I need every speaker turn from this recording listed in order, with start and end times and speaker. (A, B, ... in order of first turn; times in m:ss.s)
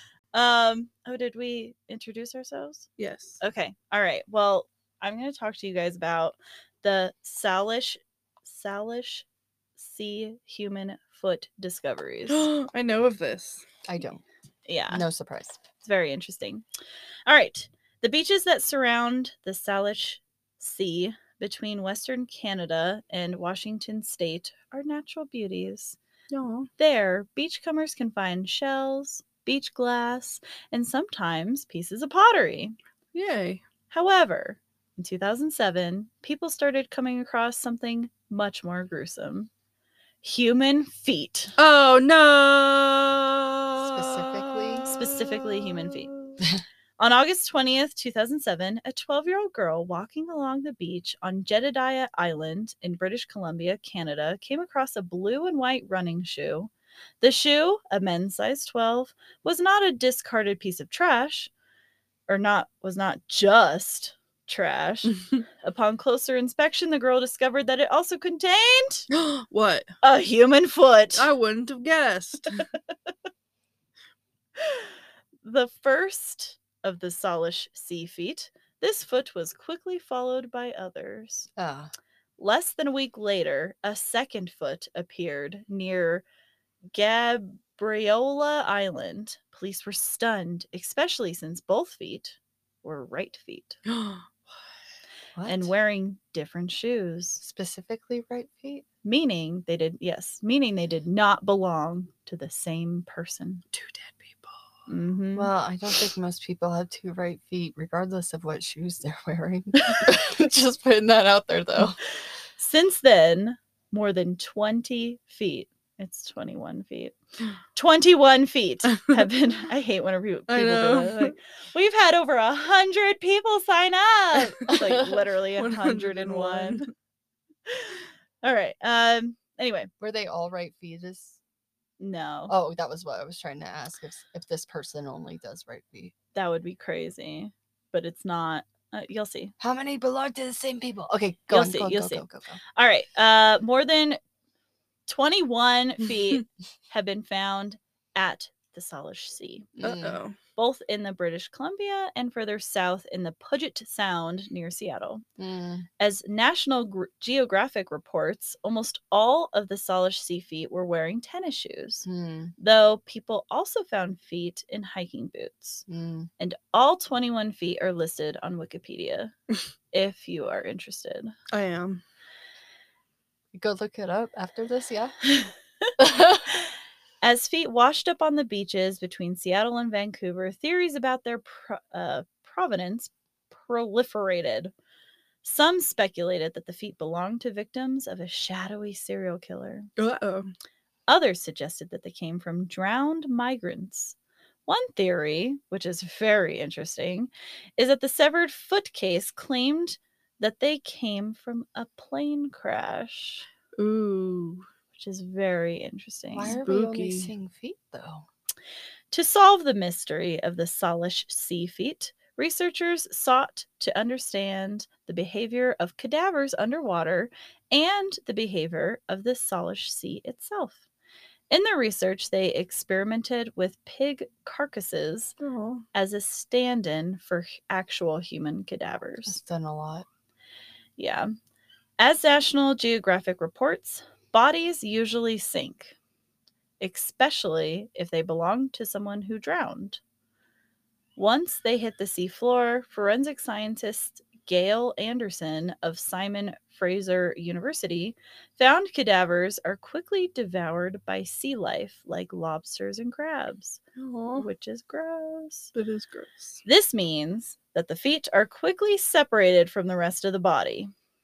0:00.3-0:02.9 A
0:03.0-0:03.4 B
0:03.4-0:09.2 A
0:09.8-0:12.5 A
0:12.3-0:13.6 B
0:13.8-0:14.2 C
0:14.7-0:15.0 A
0:14.9-0:15.6 C
0:15.7-0:16.6 A
0:17.3-0:26.0 A
0:26.3-0:26.7 B
0:26.8-0:32.8 A
0:33.1-0:33.6 B
0:33.9-0:39.5 A
0:40.2-0:41.5 A
0:41.6-0:46.4 B
0:43.8-0:44.9 C
0:44.8-0:46.1 A
0:47.0-1:01.5 A
1:02.3-1:09.1 A
1:05.1-1:05.4 B
1:09.1-1:09.9 B
1:10.0-1:11.3 A
1:11.1-1:12.6 B
1:14.6-1:21.5 A
1:21.6-1:21.9 C
1:22.4-1:26.2 A
1:26.9-1:33.8 A
1:33.8-1:34.3 B
1:35.4-1:35.7 C
1:35.4-1:37.4 A
1:37.4-1:38.8 C
1:39.0-1:43.6 A
1:43.7-1:44.5 B
1:44.9-1:45.5 A
1:45.3-1:52.0 C
1:52.6-1:57.1 A
1:57.7-2:06.8 A
2:00.5-2:01.3 B
2:04.7-2:05.1 C
2:05.6-2:06.9 B
2:07.7-2:09.9 A
2:10.0-2:11.4 C
2:12.0-2:12.5 A
2:12.5-2:16.1 C
2:16.3-2:19.5 A
2:19.6-2:22.6 C
2:21.5-2:22.2 A
2:22.8-2:24.2 A
2:25.1-2:29.7 A
2:29.8-2:30.2 C
2:29.8-2:30.4 B
2:30.6-2:35.2 A
2:35.4-2:35.8 C
2:36.0-2:42.1 A
2:42.0-2:42.5 C
2:42.6-2:45.8 A
2:45.9-2:46.3 C
2:46.4-2:49.3 A
2:49.9-2:51.3 A
2:51.5-2:52.0 B
2:53.5-2:55.2 C
2:56.0-2:56.5 C
2:57.2-3:04.7 A
3:05.4-3:09.9 A
3:10.0-3:10.5 B
3:11.1-3:23.5 A
3:23.8-3:24.6 B
3:25.0-3:26.6 A
3:26.3-3:28.2 C
3:26.5-3:27.3 B
3:29.1-3:40.8 A
3:41.5-3:45.4 A
3:45.4-3:45.8 B
3:45.9-3:49.4 A
3:49.2-3:50.1 C
3:51.0-3:51.3 A
3:52.0-3:56.0 A
3:56.8-4:00.0 A
4:01.2-4:13.8 A
4:14.0-4:14.5 B
4:14.4-4:15.7 A
4:15.7-4:16.6 B
4:16.6-4:20.9 A